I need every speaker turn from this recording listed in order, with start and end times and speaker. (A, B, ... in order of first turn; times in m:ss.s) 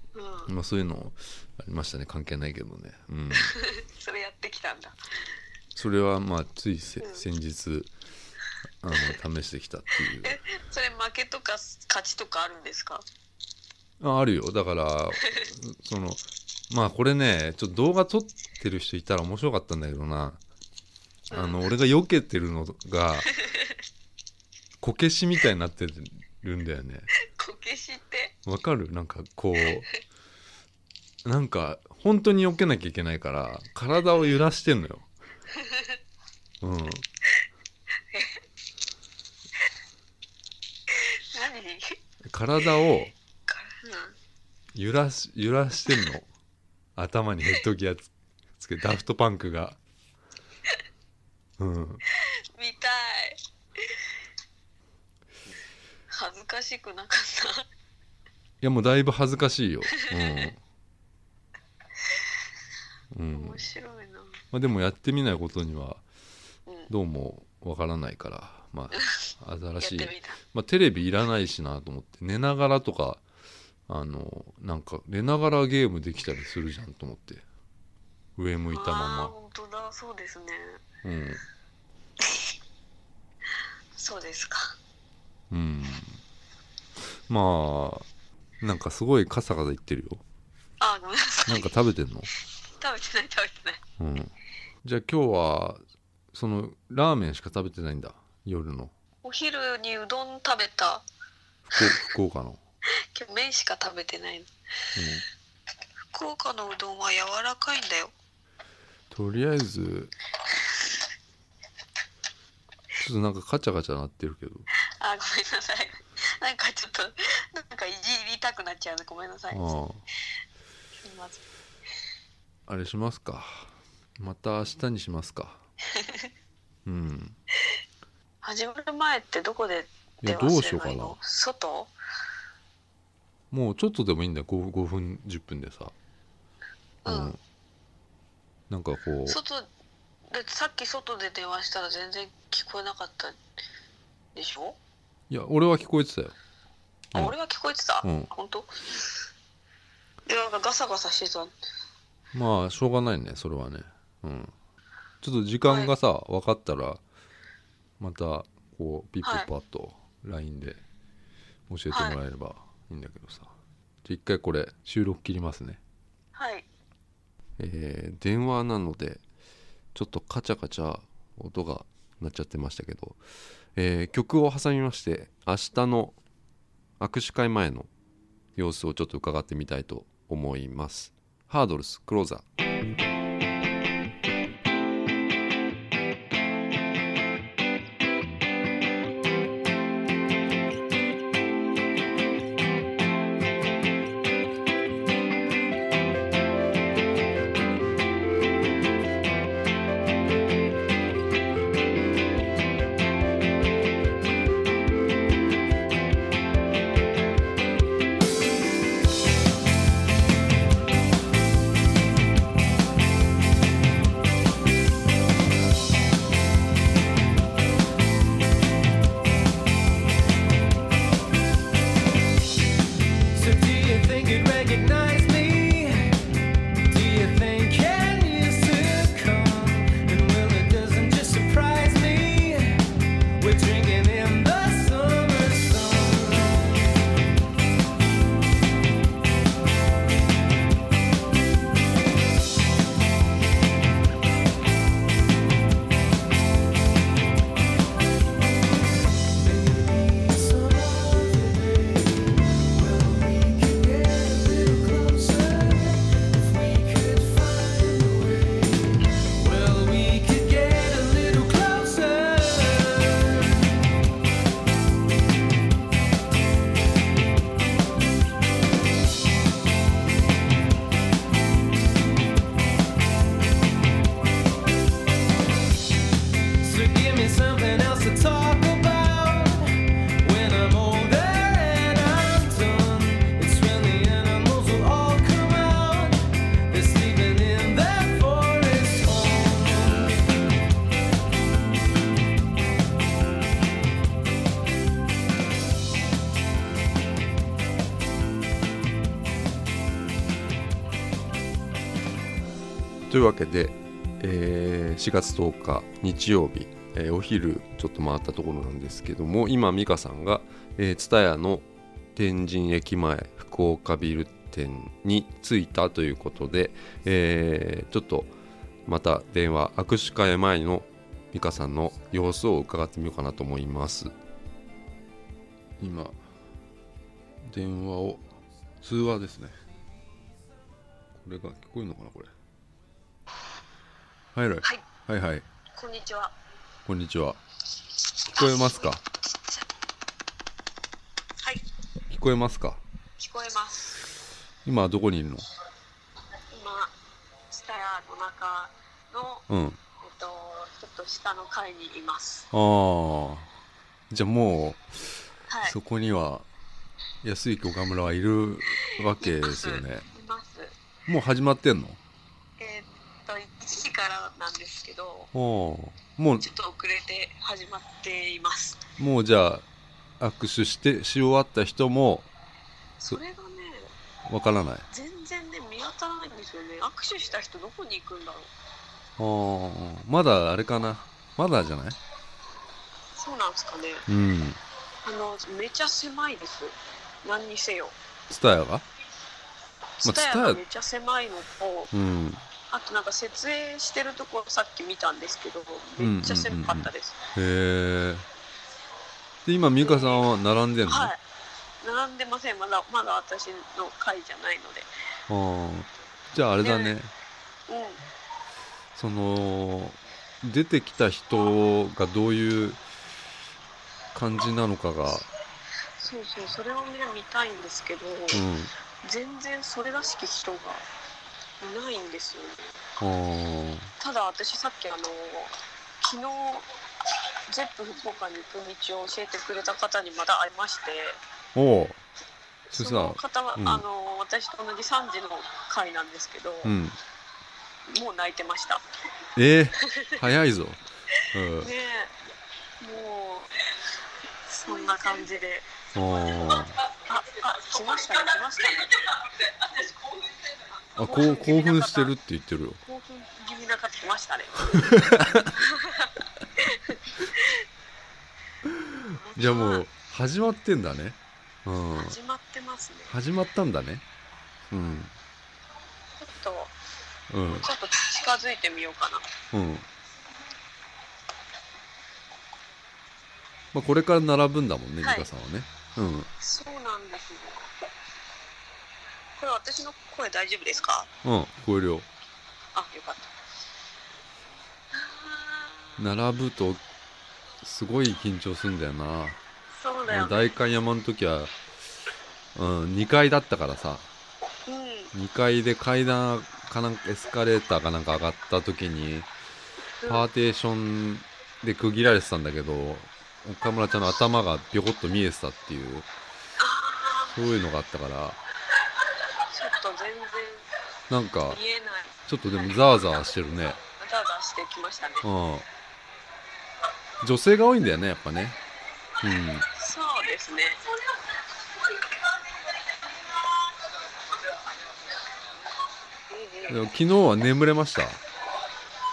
0:00.1-0:00.5 A
0:00.5-0:03.5 B
0:03.3-0:05.0 A
0:05.7-0:07.9 B
0:07.0-0:07.2 A
0:08.8-0:10.4 B
0:10.1-0:13.0 A
0:14.0-0:20.4 B
0:21.3-0:21.7 A
0:21.3-0:23.3 B
0:23.4-0:23.8 A
0:24.8-0:27.1 B
0:27.3-0:28.3 A
0:28.4-0:29.9 B
0:31.2-0:35.1 B
0:35.5-0:36.0 A
0:36.6-0:37.0 B
0:38.1-0:38.4 A
0:40.9-0:42.0 A
0:42.3-0:43.1 B
0:43.5-0:44.2 A
0:44.7-0:46.3 B
0:47.0-0:49.8 B
0:51.6-0:52.0 B
0:52.1-0:54.0 A
0:56.1-0:57.6 A
0:58.6-1:00.6 B
0:59.9-1:00.5 A
1:03.1-1:03.7 B
1:03.3-1:04.4 A
1:04.5-1:06.0 B
1:06.9-1:13.2 B
1:09.8-1:10.4 A
1:13.9-1:17.4 B
1:18.4-1:19.3 B
1:18.7-1:20.8 A
1:21.0-1:21.4 B
1:24.0-1:24.8 A
1:25.5-1:26.2 B
1:27.3-1:28.1 B
1:28.6-1:30.2 B
1:30.8-1:31.8 A
1:31.4-1:32.3 B
1:32.8-1:33.8 A
1:34.0-1:35.8 B
1:36.3-1:38.9 B
1:39.2-1:41.0 A
1:41.7-1:42.6 B
1:43.1-1:44.5 A
1:45.0-1:45.2 B
1:46.1-1:48.1 A
1:49.1-1:50.1 B
1:53.0-1:54.7 B
1:55.0-1:59.8 A
1:59.5-2:00.0 B
2:01.0-2:01.4 A
2:02.7-2:05.6 B
2:05.9-2:06.3 A
2:06.8-2:07.4 B
2:08.4-2:11.9 A
2:10.2-2:11.2 B
2:13.5-2:15.9 B
2:17.0-2:17.4 A
2:17.0-2:17.4 B
2:18.7-2:19.4 B
2:19.2-2:19.7 A
2:20.3-2:23.4 A
2:24.3-2:24.8 A
2:25.3-2:26.3 B
2:27.1-2:29.1 A
2:28.0-2:28.3 B
2:30.2-2:31.5 A
2:32.3-2:34.5 B
2:35.2-2:37.0 B
2:35.6-2:35.9 A
2:38.0-2:40.8 B
2:39.2-2:39.5 A
2:41.7-2:45.8 B
2:41.9-2:42.2 A
2:46.3-2:46.6 A
2:47.6-2:49.2 B
2:49.9-2:53.2 B
2:53.8-2:56.2 B
2:57.0-2:57.9 B
2:58.6-3:02.4 B
3:43.3-3:46.3 C
3:46.8-3:56.8 C
4:09.2-4:23.7 C
4:36.6-4:50.2 C
5:03.1-5:18.3 B
5:18.8-5:24.1 B
5:25.8-5:26.2 B
5:27.4-5:28.2 B
5:28.8-5:29.6 B
5:31.2-5:32.3 B
5:34.3-5:35.4 B
5:35.7-5:36.3 A
5:36.8-5:37.4 B
5:38.3-5:38.9 A
5:38.3-5:39.0 B
5:42.1-5:42.8 B
5:43.2-5:44.0 A
5:44.6-5:45.4 B
5:46.5-5:46.9 A
5:47.5-5:49.4 A
5:49.5-5:49.8 B
5:50.0-5:52.5 A
5:52.5-5:53.5 B
5:54.1-5:54.8 B
5:55.5-5:55.8 A
5:55.6-5:56.4 B
5:57.2-6:00.0 B
5:58.8-6:00.8 A
6:01.1-6:02.0 B
6:02.6-6:05.3 A
6:05.3-6:06.5 B
6:06.4-6:08.8 A
6:09.0-6:09.6 B
6:10.2-6:12.3 B
6:13.0-6:13.9 A
6:14.2-6:14.8 B
6:14.9-6:18.5 A
6:19.2-6:22.0 B
6:23.2-6:24.1 A
6:24.1-6:24.6 B
6:25.0-6:28.0 A
6:28.3-6:28.8 B
6:30.0-6:31.9 A
6:30.0-6:30.6 B
6:31.9-6:32.4 B
6:32.7-6:37.2 A
6:36.0-6:38.2 B
6:39.4-6:41.1 B
6:39.8-6:40.3 A
6:40.8-6:41.2 A
6:41.8-6:44.9 A
6:45.3-6:47.1 B
6:46.6-6:46.9 A
6:47.7-6:48.0 A
6:48.9-6:52.8 B
6:54.1-6:55.3 B
6:56.0-6:58.5 A
6:58.3-6:58.7 B
6:59.0-7:00.8 A
7:01.6-7:02.8 A
7:03.0-7:03.9 B
7:04.0-7:06.7 A
7:07.5-7:11.2 A
7:11.5-7:12.0 B
7:12.7-7:16.7 A
7:12.7-7:13.8 B
7:16.6-7:17.0 B
7:17.9-7:18.8 A
7:19.4-7:20.8 B
7:19.8-7:20.2 A
7:21.3-7:21.7 B
7:21.6-7:22.1 A
7:22.8-7:23.5 A
7:24.5-7:25.7 A
7:25.9-7:26.8 B
7:26.9-7:29.1 A
7:31.0-7:32.8 B
7:31.0-7:32.1 A
7:32.8-7:37.6 A
7:34.7-7:35.6 B
7:38.6-7:42.2 B
7:39.1-7:39.8 A
7:41.9-7:43.1 A
7:43.1-7:44.0 B
7:44.7-7:45.1 B
7:46.2-7:46.7 A
7:47.3-7:47.7 B
7:47.4-7:49.3 A
7:49.5-7:49.9 B
7:53.7-7:56.3 B
7:55.0-7:55.3 A
7:56.4-7:57.7 A
7:59.4-8:01.1 A
8:01.2-8:02.1 B
8:02.7-8:03.3 A
8:04.9-8:05.9 A
8:06.0-8:06.8 B
8:07.6-8:09.4 B
8:09.7-8:10.5 A
8:10.1-8:11.5 B
8:12.5-8:14.1 B
8:14.6-8:15.1 A
8:15.1-8:19.3 B
8:20.0-8:20.3 A
8:20.0-8:26.1 B
8:26.6-8:27.4 A
8:27.3-8:28.4 B
8:29.5-8:30.7 A
8:31.1-8:31.6 B
8:31.5-8:32.1 A
8:32.3-8:33.8 B
8:34.0-8:35.2 A
8:35.2-8:35.6 B
8:37.2-8:38.6 B
8:39.2-8:39.7 B
8:39.7-8:40.8 A
8:46.3-8:46.8 A
8:46.7-8:48.2 B